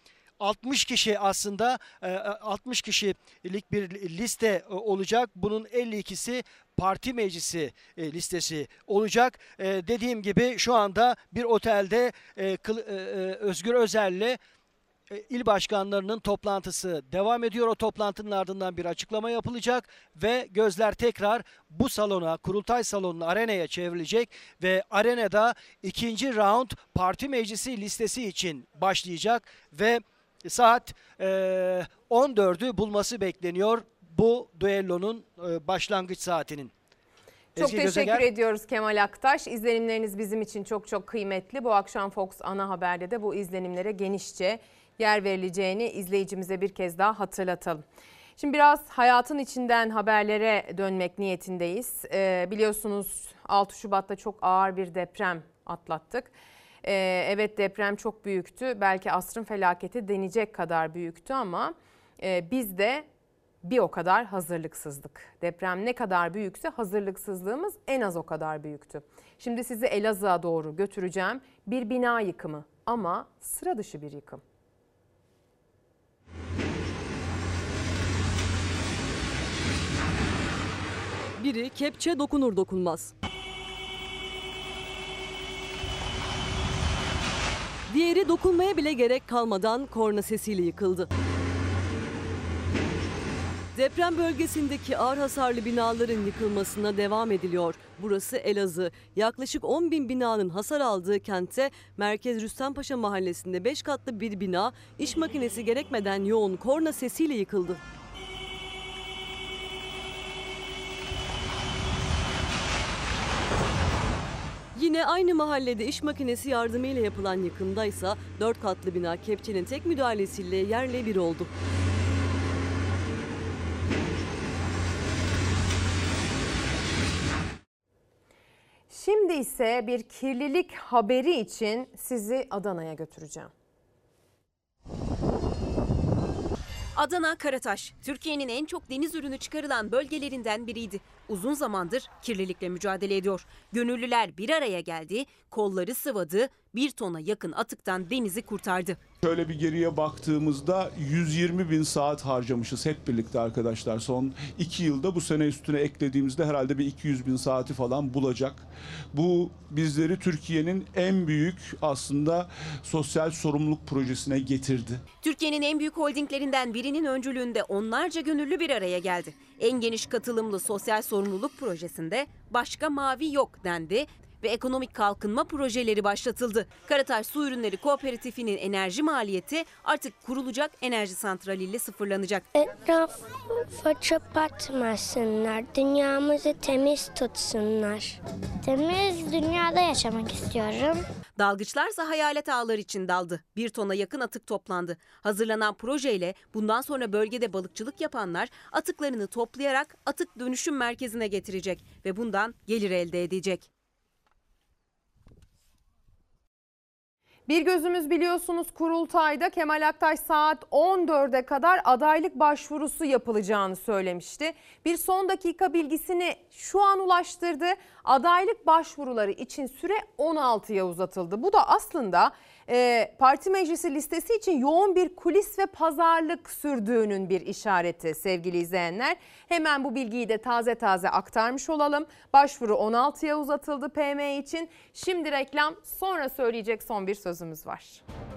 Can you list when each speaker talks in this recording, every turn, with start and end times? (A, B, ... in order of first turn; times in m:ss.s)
0:00.4-0:14.4 A
0:15.1-0:36.7 A
0:37.6-0:38.2 A
0:37.6-0:47.8 B
0:48.4-0:56.3 B
0:56.8-1:03.0 B
1:03.6-1:14.4 B
1:21.4-1:23.1 C
1:27.9-1:31.1 C
1:33.7-1:47.8 C
1:54.7-2:01.5 C
2:08.9-2:13.5 B
2:17.0-2:29.0 D
2:29.2-2:38.6 E
2:39.1-2:45.0 E
2:45.2-3:02.5 D
3:02.5-3:11.0 F
3:11.4-3:23.7 D
3:27.5-3:58.0 B